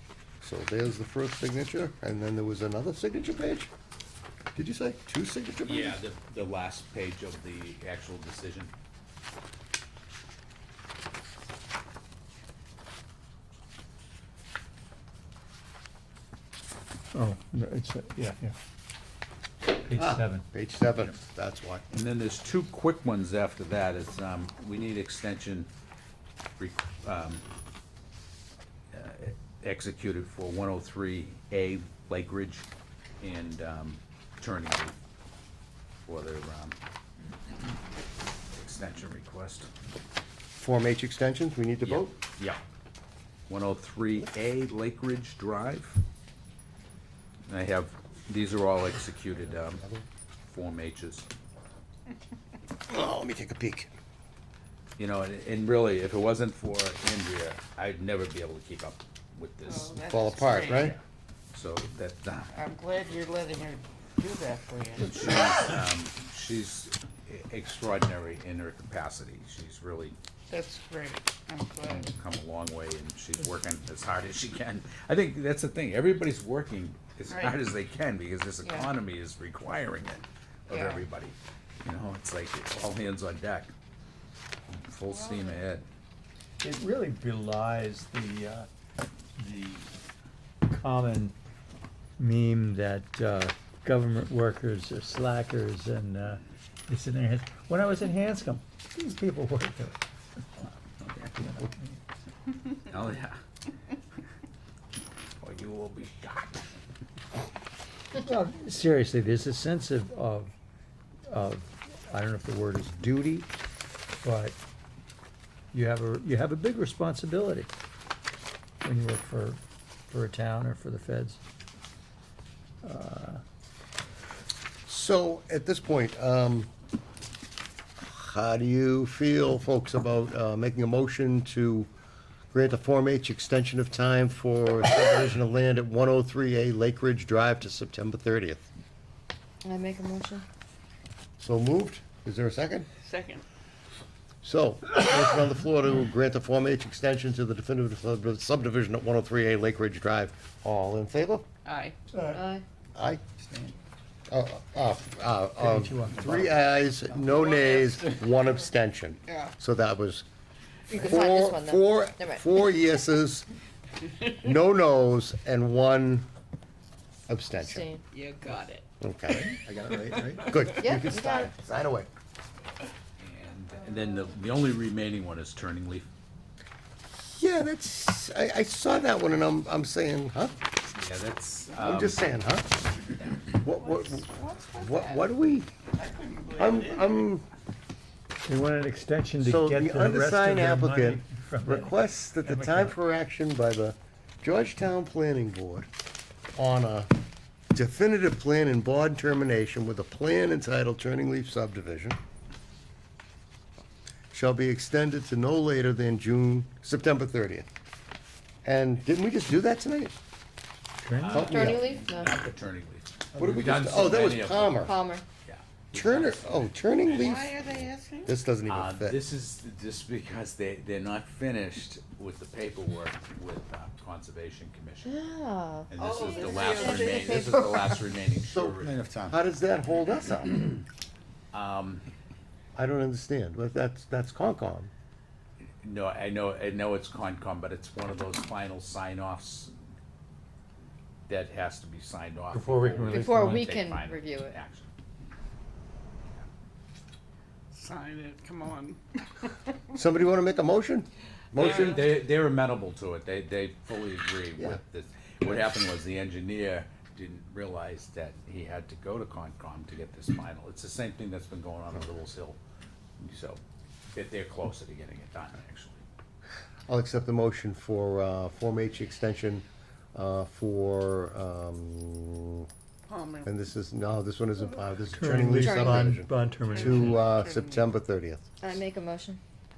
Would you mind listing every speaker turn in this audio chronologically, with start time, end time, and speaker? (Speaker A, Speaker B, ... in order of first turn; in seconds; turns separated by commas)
Speaker A: 0.4-3.7, Speaker A: 4.6-6.0, Speaker B: 5.6-8.7, Speaker C: 17.1-18.6, Speaker C: 19.9-20.4, Speaker A: 19.9-21.8, Speaker B: 21.9-25.7, Speaker B: 26.6-27.4, Speaker B: 28.9-32.7, Speaker B: 33.2-35.0, Speaker B: 36.1-36.8, Speaker B: 38.5-39.7, Speaker A: 40.6-42.1, Speaker B: 41.9-42.6, Speaker B: 43.5-46.0, Speaker B: 47.5-49.8, Speaker A: 49.7-50.0, Speaker B: 50.5-51.3, Speaker A: 52.9-53.9, Speaker B: 55.0-60.0, Speaker D: 59.6-61.0, Speaker A: 60.1-61.0, Speaker B: 61.5-62.6, Speaker D: 62.5-65.3, Speaker B: 65.0-70.2, Speaker D: 70.5-72.1, Speaker B: 71.8-83.7, Speaker D: 77.3-77.6, Speaker D: 78.6-78.9, Speaker D: 80.7-81.0, Speaker B: 84.7-85.8, Speaker D: 85.1-85.6, Speaker C: 86.6-88.7, Speaker C: 89.4-89.9, Speaker C: 90.7-91.3, Speaker C: 92.2-100.0, Speaker C: 101.2-101.9, Speaker B: 102.8-103.4, Speaker B: 105.4-106.7, Speaker C: 108.2-110.5, Speaker C: 111.3-113.5, Speaker C: 114.2-114.6, Speaker C: 115.7-117.7, Speaker C: 118.8-121.4, Speaker C: 122.8-123.4, Speaker A: 124.9-126.7, Speaker A: 128.0-131.9, Speaker A: 132.5-138.7, Speaker E: 139.6-140.4, Speaker A: 141.4-142.9, Speaker D: 143.0-143.4, Speaker A: 144.4-151.5, Speaker D: 151.7-151.9, Speaker C: 152.1-152.5, Speaker E: 152.3-152.6, Speaker A: 152.9-153.2, Speaker C: 153.4-153.7, Speaker A: 154.3-160.2, Speaker C: 155.6-156.6, Speaker D: 157.4-157.9, Speaker D: 159.3-159.5, Speaker E: 160.9-162.5, Speaker A: 160.9-163.5, Speaker A: 164.2-166.3, Speaker A: 167.3-167.9, Speaker E: 167.6-168.0, Speaker D: 168.1-168.8, Speaker A: 169.0-169.7, Speaker C: 169.8-170.4, Speaker D: 169.9-170.7, Speaker A: 170.3-172.1, Speaker E: 170.6-171.5, Speaker B: 173.2-176.1, Speaker A: 177.3-180.6, Speaker B: 180.9-182.3, Speaker A: 181.8-182.7, Speaker B: 183.2-183.6, Speaker A: 183.6-185.7, Speaker D: 183.7-185.3, Speaker D: 185.9-187.1, Speaker A: 186.6-187.4, Speaker C: 188.5-192.9, Speaker A: 189.4-195.9, Speaker A: 196.6-197.1, Speaker A: 197.7-202.2, Speaker A: 204.3-207.7, Speaker A: 208.6-210.1, Speaker C: 211.0-211.8, Speaker B: 211.2-214.9, Speaker A: 211.3-212.0, Speaker E: 211.4-212.3, Speaker A: 213.4-215.0, Speaker E: 214.8-215.2, Speaker B: 215.4-217.4, Speaker A: 215.9-217.6, Speaker D: 217.1-218.3, Speaker A: 218.2-219.2, Speaker B: 218.7-225.2, Speaker E: 225.0-228.0, Speaker B: 225.9-229.3, Speaker D: 226.0-227.4, Speaker A: 228.4-230.8, Speaker B: 231.5-232.1, Speaker A: 232.8-234.9, Speaker B: 235.8-239.7, Speaker B: 241.3-244.9, Speaker C: 242.5-243.8, Speaker E: 243.0-244.6, Speaker D: 247.7-249.5, Speaker A: 249.9-252.1, Speaker B: 251.6-262.6, Speaker D: 251.6-251.9, Speaker B: 263.2-263.6, Speaker B: 264.1-266.0, Speaker A: 266.9-272.7, Speaker D: 273.1-273.5, Speaker A: 273.4-278.4, Speaker C: 275.1-277.1, Speaker E: 275.6-276.2, Speaker D: 276.7-277.9, Speaker E: 278.6-279.4